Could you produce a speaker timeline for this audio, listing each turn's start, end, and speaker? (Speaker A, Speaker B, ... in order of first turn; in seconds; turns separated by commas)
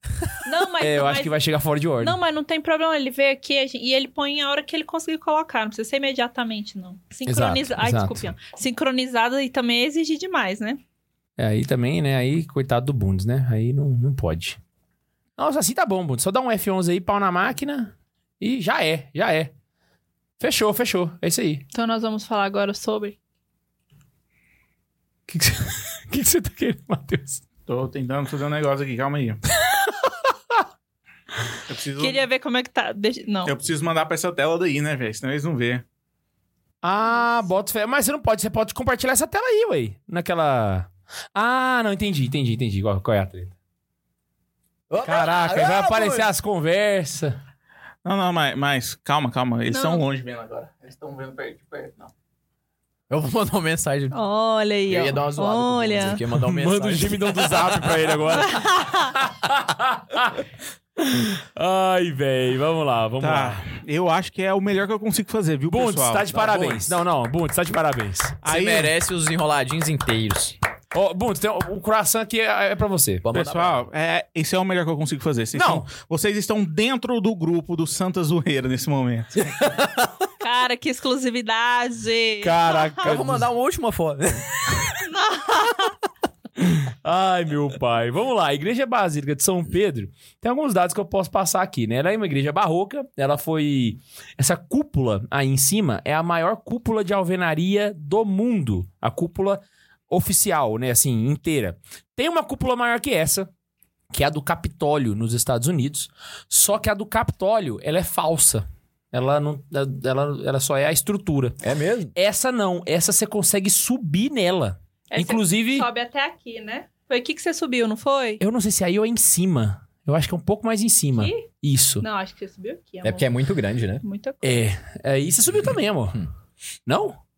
Speaker A: 0.4-1.3, Speaker B: 0.8-2.2, Speaker A: 2.0-10.8, Speaker B: 7.3-8.3, Speaker B: 11.4-14.6, Speaker B: 15.4-19.5, Speaker B: 20.4-21.6, Speaker A: 21.7-23.2, Speaker B: 25.3-27.4, Speaker C: 27.7-29.4, Speaker B: 29.7-30.1, Speaker C: 31.7-32.2, Speaker A: 32.0-33.5, Speaker C: 33.5-35.8, Speaker B: 36.8-43.5, Speaker D: 44.9-46.3, Speaker B: 45.0-47.4, Speaker C: 48.0-52.1, Speaker A: 49.7-50.0, Speaker D: 53.1-54.2, Speaker A: 54.1-56.2, Speaker D: 54.9-58.2, Speaker B: 56.3-60.4, Speaker A: 58.3-59.1, Speaker B: 61.0-63.6, Speaker C: 63.2-66.9, Speaker B: 65.7-68.4, Speaker C: 68.4-68.9, Speaker D: 68.5-70.6, Speaker B: 70.9-73.4, Speaker D: 73.2-73.8, Speaker C: 73.3-79.5, Speaker B: 75.5-75.9, Speaker A: 80.4-83.0, Speaker B: 82.4-83.5, Speaker D: 83.0-84.7, Speaker A: 85.0-85.9, Speaker B: 86.6-103.5, Speaker B: 104.1-111.6, Speaker D: 111.6-112.1, Speaker B: 112.2-115.9, Speaker A: 115.1-118.4, Speaker B: 118.4-122.0, Speaker A: 121.2-121.5, Speaker A: 122.0-123.3, Speaker D: 123.0-124.0, Speaker A: 124.0-124.6, Speaker B: 124.4-126.2, Speaker B: 126.9-127.2